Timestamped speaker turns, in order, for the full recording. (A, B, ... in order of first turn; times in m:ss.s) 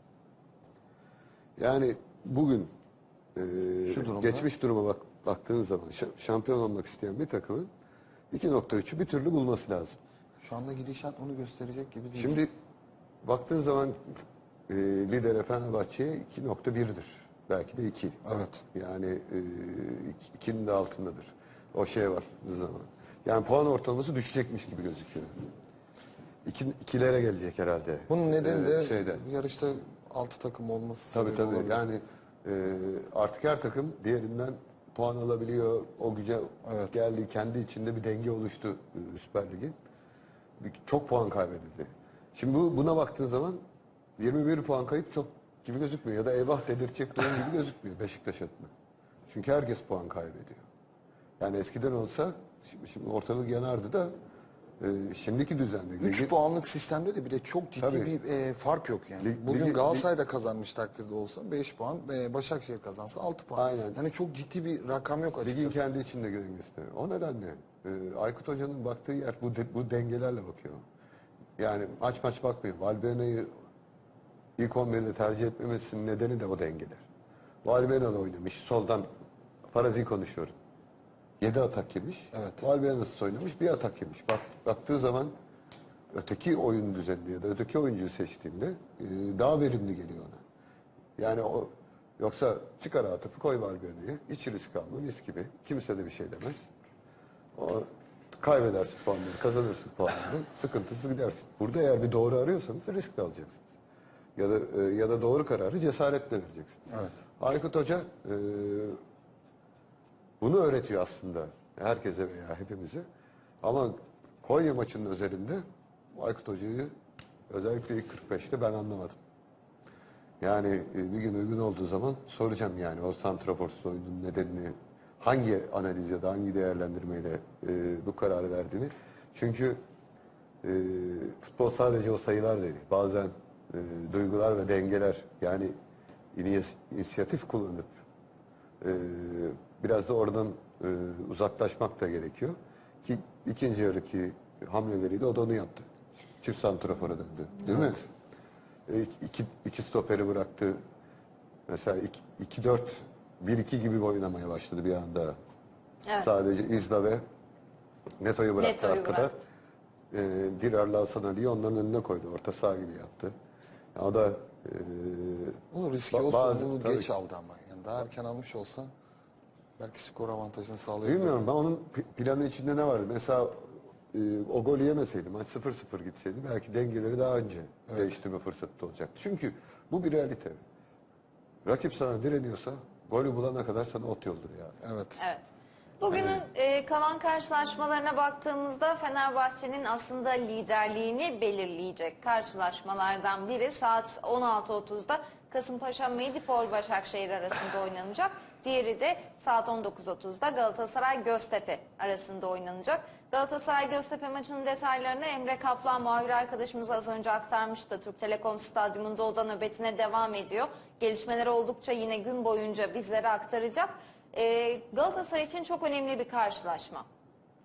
0:01.6-0:02.7 A
0:03.4-0:07.7 A
0:03.9-0:04.5 B
0:08.3-0:10.0 A
0:10.4-0:12.4 B
0:12.2-0:12.5 A
0:13.2-0:18.2 A
0:18.3-0:18.6 B
0:18.7-0:25.3 A
0:26.4-0:29.2 A
0:28.1-0:31.8 B
0:31.1-0:39.8 A
0:36.7-0:36.9 B
0:40.6-0:43.6 A
0:44.2-0:48.7 A
0:49.3-0:50.7 A
0:51.4-0:54.1 A
0:54.8-0:56.3 A
0:56.0-1:05.8 B
0:57.8-0:58.1 A
0:59.2-1:00.1 A
1:03.6-1:04.0 A
1:05.4-1:10.8 A
1:11.6-1:13.5 A
1:14.6-1:17.0 A
1:17.6-1:19.1 A
1:19.7-1:20.6 A
1:21.4-1:25.4 A
1:22.3-1:22.6 B
1:26.1-1:30.4 A
1:31.2-1:36.7 A
1:37.6-1:43.8 A
1:44.4-1:49.0 A
1:46.9-1:47.2 B
1:50.4-1:53.0 A
1:53.6-1:55.6 A
1:56.1-1:56.9 A
1:57.5-1:59.2 A
2:00.4-2:09.8 A
2:10.6-2:15.7 A
2:16.3-2:17.9 A
2:18.8-2:25.9 A
2:26.4-2:28.1 A
2:28.9-2:30.8 A
2:31.7-2:35.4 A
2:36.2-2:37.2 A
2:38.2-2:39.4 A
2:38.6-2:39.3 C
2:40.1-2:43.4 A
2:44.0-2:47.1 A
2:45.7-2:48.9 B
2:49.8-2:51.5 B
2:51.0-3:00.6 A
3:01.6-3:04.8 A
3:04.8-3:05.2 B
3:05.2-3:05.4 C
3:06.0-3:37.1 C
3:06.1-3:06.4 A